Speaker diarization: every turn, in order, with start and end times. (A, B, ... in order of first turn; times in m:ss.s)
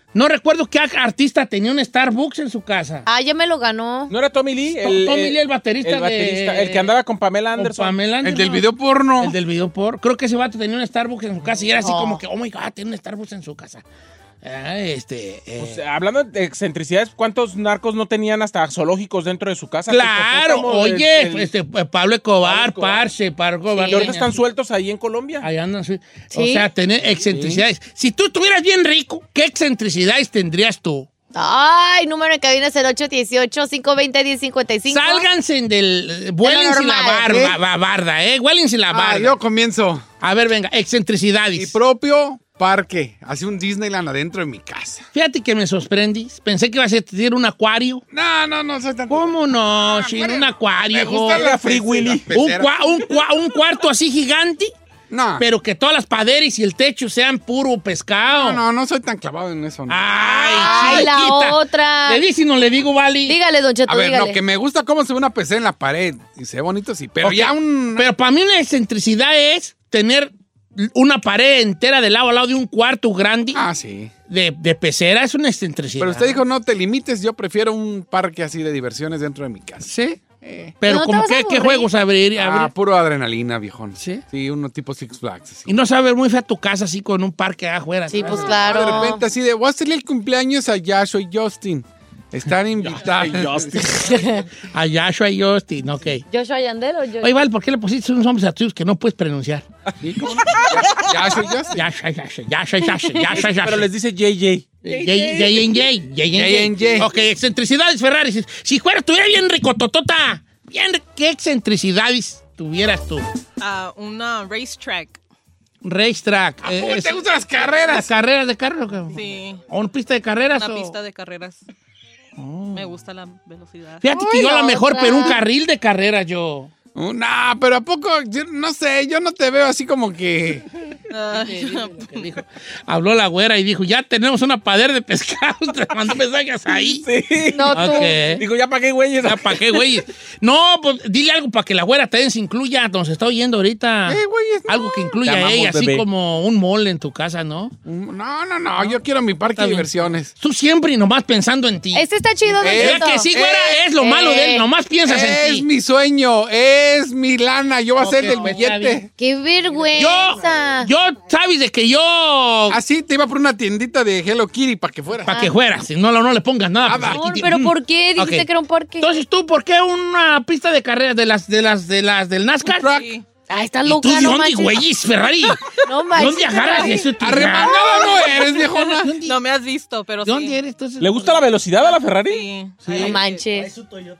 0:00.1-0:03.0 A
0:03.1-0:04.1 B
0:04.1-0:08.0 C
0:04.7-0:06.9 A
0:07.6-0:08.7 A
0:08.2-0:09.4 D
0:09.2-0:13.8 A
0:11.8-0:12.2 B
0:14.4-0:15.8 A
0:15.6-0:21.5 C
0:19.9-0:24.3 A
0:22.4-0:23.0 C
0:23.7-0:24.1 B
0:23.9-0:25.4 C
0:25.4-0:31.1 A
0:26.3-0:26.7 B
0:27.3-0:27.6 C
0:31.3-0:35.3 B
0:34.9-0:39.4 A
0:36.4-0:37.5 B
0:38.9-0:40.0 D
0:40.2-0:41.8 A
0:41.6-0:45.1 D
0:45.1-0:48.0 A
0:48.1-0:53.1 D
0:49.1-0:51.4 A
0:51.3-0:52.3 C
0:52.3-0:54.7 A
0:55.1-0:55.4 D
0:55.4-0:58.6 A
0:58.3-1:01.1 D
0:59.9-1:03.4 A
1:00.3-1:02.2 B
1:03.3-1:04.4 B
1:03.9-1:08.1 D
1:07.2-1:13.6 A
1:13.5-1:14.1 D
1:14.3-1:16.4 A
1:16.0-1:20.8 D
1:19.9-1:20.2 A
1:20.8-1:22.7 A
1:20.9-1:21.9 B
1:22.4-1:25.7 D
1:24.0-1:24.2 A
1:25.7-1:29.0 A
1:28.1-1:29.2 B
1:28.4-1:33.8 D
1:32.8-1:34.1 C
1:33.8-1:36.2 A
1:34.2-1:34.4 B
1:36.3-1:37.4 B
1:37.2-1:39.6 A
1:40.0-1:41.8 D
1:41.7-1:43.9 A
1:43.4-1:44.8 C
1:44.8-1:53.3 A
1:46.3-1:47.1 D
1:53.6-1:55.2 E
1:55.8-1:57.2 A
1:56.6-1:58.1 D
1:57.9-1:59.2 A
1:59.1-1:59.6 E
1:59.7-2:01.0 A
2:00.5-2:01.6 E
2:02.4-2:02.9 A
2:02.7-2:04.0 E
2:04.0-2:06.7 A
2:04.1-2:05.4 B
2:07.0-2:10.6 D
2:11.1-2:12.3 E
2:11.3-2:17.1 A
2:16.8-2:19.8 C
2:17.5-2:18.2 B
2:17.7-2:18.4 A
2:19.2-2:27.8 A
2:24.1-2:25.2 D
2:25.3-2:26.0 C
2:27.8-2:30.3 D
2:29.5-2:32.1 A
2:31.9-2:33.3 B
2:32.6-2:33.8 D
2:32.7-2:35.7 A
2:34.0-2:34.7 B
2:35.0-2:39.1 D
2:38.0-2:39.0 A
2:39.2-2:40.9 B
2:40.0-2:42.8 A
2:42.7-2:45.5 D
2:45.2-2:48.5 A
2:46.8-2:47.4 D
2:47.0-2:49.2 B
2:49.0-2:53.0 A
2:52.8-2:53.2 E
2:52.8-2:53.1 D
2:53.5-2:54.8 B
2:53.8-2:55.6 A
2:55.8-2:57.2 B
2:56.2-2:57.8 A
2:57.2-2:59.1 D
2:57.8-3:00.6 E
2:57.8-2:58.2 B
2:59.0-2:59.4 A
3:00.2-3:01.4 A
3:01.0-3:02.5 C
3:01.8-3:03.5 E
3:02.8-3:03.2 A
3:02.9-3:03.7 B